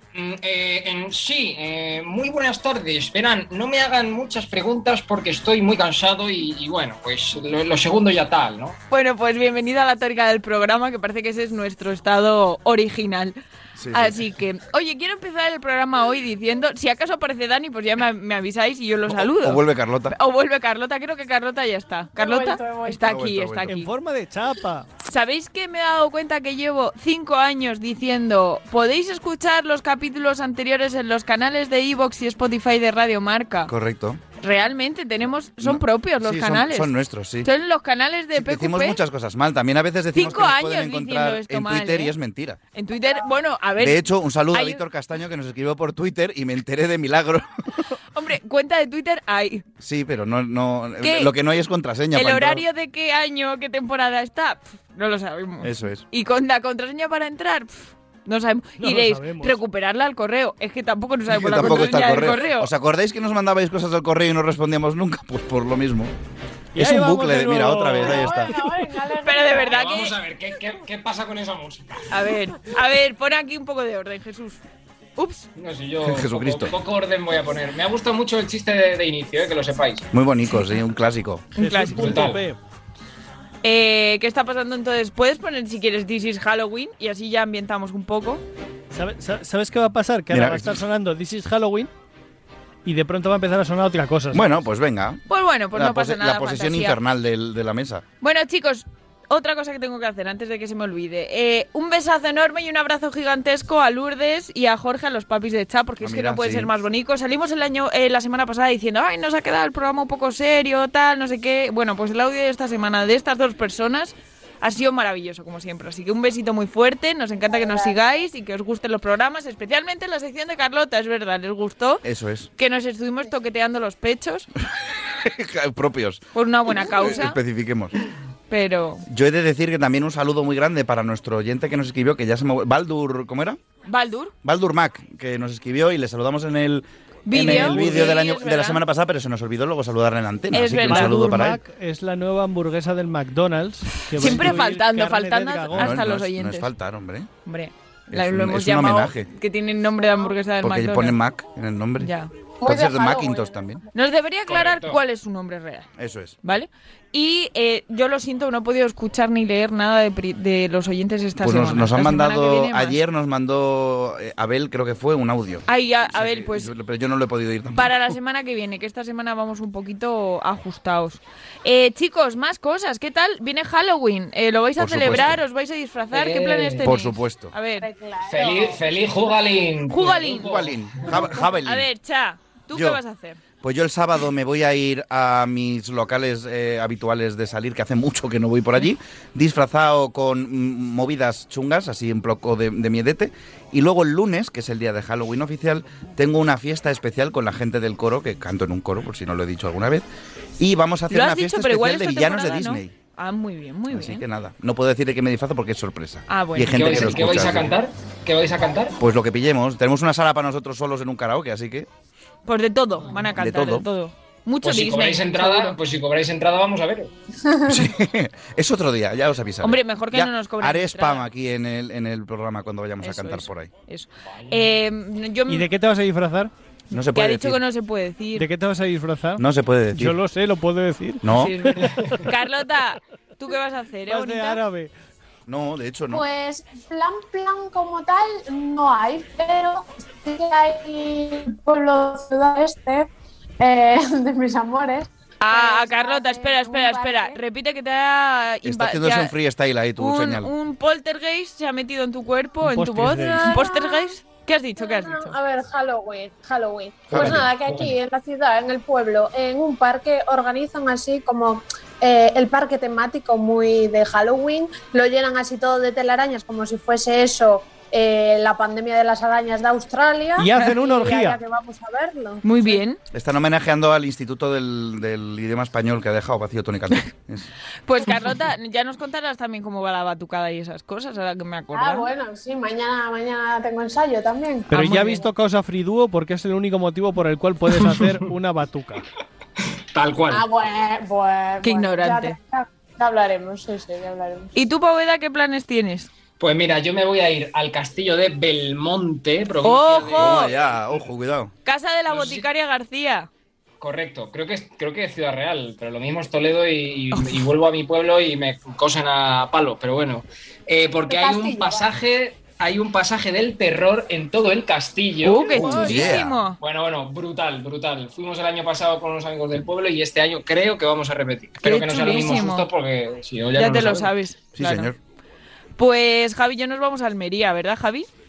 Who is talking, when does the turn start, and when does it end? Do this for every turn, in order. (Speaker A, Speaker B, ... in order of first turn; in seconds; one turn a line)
Speaker A: 0.1-8.8
Speaker B: 8.9-13.4
Speaker C: 13.8-14.2
Speaker B: 13.9-23.9
Speaker C: 19.1-20.1
Speaker D: 22.2-23.1
Speaker C: 23.0-23.7
Speaker E: 23.7-24.9
Speaker B: 25.1-33.7
Speaker C: 33.7-34.2
Speaker B: 34.4-39.0
Speaker C: 35.6-37.5
Speaker C: 38.4-42.6
Speaker B: 40.1-42.1
Speaker B: 42.7-44.8
Speaker C: 43.8-47.9
Speaker B: 48.1-49.6
Speaker C: 49.8-52.6
Speaker B: 51.0-51.3
Speaker B: 52.1-62.7
Speaker C: 55.6-56.0
Speaker E: 58.8-59.6
Speaker C: 61.3-66.1
Speaker E: 66.8-68.4
Speaker C: 66.8-68.6
Speaker D: 68.0-69.8
Speaker B: 69.2-70.2
Speaker A: 69.7-72.0
Speaker B: 72.1-74.6
Speaker B: 75.2-75.5
Speaker A: 75.6-80.1
Speaker C: 76.0-76.8
Speaker C: 80.1-81.5
Speaker E: 81.5-82.6
Speaker B: 81.6-82.2
Speaker A: 82.0-82.4
Speaker B: 83.6-88.4
Speaker E: 88.9-91.9
Speaker C: 90.3-90.8
Speaker E: 92.8-94.5
Speaker C: 94.3-95.2
Speaker B: 95.3-97.0
Speaker C: 95.7-98.0
Speaker B: 98.2-122.0
Speaker C: 106.0-106.7
Speaker D: 117.5-118.0
Speaker C: 122.0-122.5
Speaker B: 122.6-124.5
Speaker C: 125.1-127.9
Speaker B: 126.3-127.4
Speaker B: 128.5-129.0
Speaker C: 129.1-133.6
Speaker B: 133.9-134.3
Speaker C: 134.4-141.6
Speaker B: 137.3-138.8
Speaker E: 137.4-138.2
Speaker B: 140.5-141.4
Speaker E: 140.8-146.0
Speaker B: 144.2-146.7
Speaker C: 145.7-147.3
Speaker B: 147.4-151.2
Speaker C: 148.1-149.3
Speaker C: 150.6-152.1
Speaker B: 152.0-152.3
Speaker D: 152.6-153.7
Speaker C: 152.6-153.8
Speaker B: 153.9-155.9
Speaker A: 154.5-155.0
Speaker C: 156.0-156.4
Speaker B: 156.4-163.0
Speaker C: 161.4-168.0
Speaker B: 165.7-166.7
Speaker B: 167.7-177.9
Speaker C: 174.8-175.4
Speaker A: 176.1-176.9
Speaker C: 176.8-177.5
Speaker D: 177.8-179.6
Speaker A: 178.3-181.1
Speaker B: 179.9-180.6
Speaker C: 180.2-181.9
Speaker B: 181.3-183.4
Speaker C: 182.7-183.0
Speaker C: 183.6-200.1
Speaker C: 200.6-202.9
Speaker B: 201.1-204.2
Speaker C: 203.9-207.7
Speaker B: 206.3-207.3
Speaker A: 206.7-209.0
Speaker C: 209.0-211.9
Speaker B: 212.5-215.8
Speaker C: 213.3-213.9
Speaker A: 214.6-217.1
Speaker C: 217.7-223.7
Speaker B: 219.6-221.3
Speaker B: 223.0-225.7
Speaker E: 225.5-226.5
Speaker C: 226.9-227.6
Speaker B: 226.9-228.5
Speaker E: 228.4-232.3
Speaker C: 229.4-230.2
Speaker C: 231.2-231.6
Speaker B: 231.3-234.6
Speaker E: 234.1-234.9
Speaker C: 235.5-236.2
Speaker D: 236.1-243.1
Speaker D: 243.6-247.4
Speaker B: 245.4-249.3
Speaker C: 248.7-250.5
Speaker B: 250.0-255.3
Speaker E: 252.6-253.5
Speaker D: 253.4-254.2
Speaker D: 254.8-272.8
Speaker C: 257.1-257.5
Speaker A: 257.1-257.9
Speaker E: 270.4-271.4
Speaker B: 272.4-273.0
Speaker C: 273.1-277.5
Speaker B: 277.9-282.1
Speaker D: 281.7-284.7
Speaker E: 284.7-289.1
Speaker B: 284.7-285.2
Speaker A: 289.9-290.5
Speaker D: 290.3-294.5
Speaker B: 291.6-292.4
Speaker B: 294.6-296.1
Speaker A: 296.4-301.0
Speaker B: 299.6-300.5
Speaker C: 300.1-301.5
Speaker B: 301.6-303.3
Speaker A: 302.1-302.5
Speaker A: 303.8-316.1
Speaker D: 311.1-311.9
Speaker B: 315.2-316.6
Speaker C: 315.5-316.4
Speaker E: 315.5-316.1
Speaker A: 316.6-324.1
Speaker B: 321.6-322.7
Speaker B: 323.6-324.9
Speaker C: 324.6-325.0
Speaker B: 325.8-328.1